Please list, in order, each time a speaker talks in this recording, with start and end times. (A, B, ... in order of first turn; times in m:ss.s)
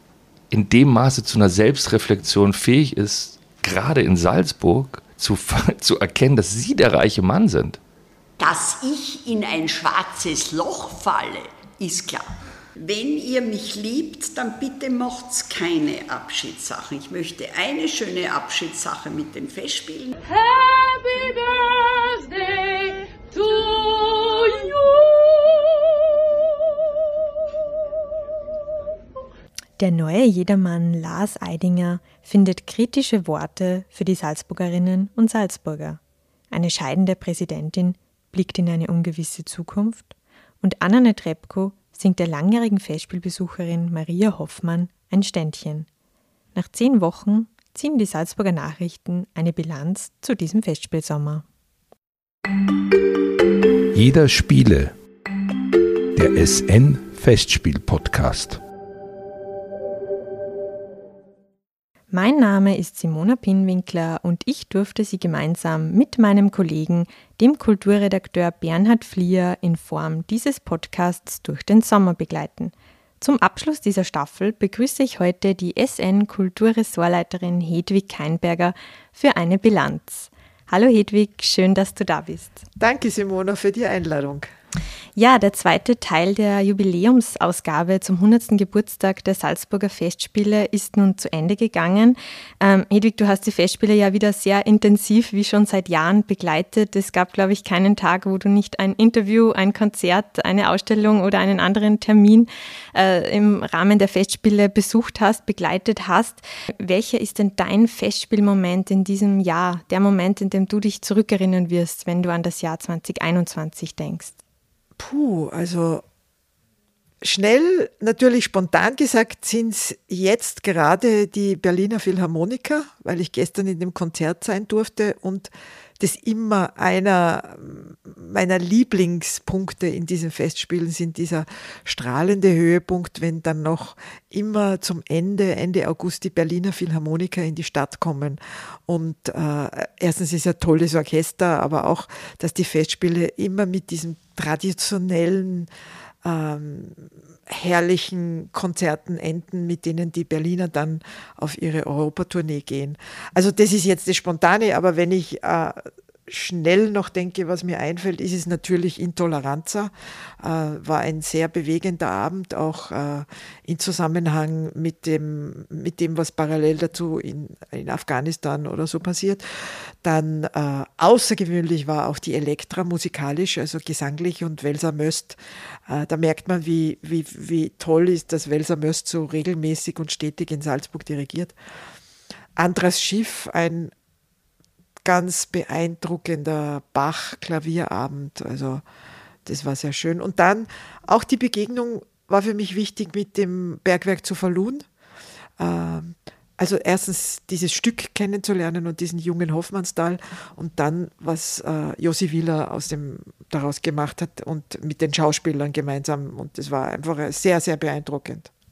0:00.5-0:07.8 A
0:08.4-0:24.9 B
0:29.8-0:36.0 C
0:36.5-0:45.9 C
0:46.6-0:51.4 C
0:53.9-0:54.9 D
0:56.2-0:58.6 D
1:02.1-1:22.6 C
1:22.8-1:24.5 E
1:25.2-1:54.4 C
1:55.0-1:56.0 E
1:57.2-2:25.7 E
2:26.2-3:01.6 E
3:02.6-3:03.9 E
3:05.0-3:08.8 E
3:09.5-3:14.9 E
3:15.6-3:28.5 E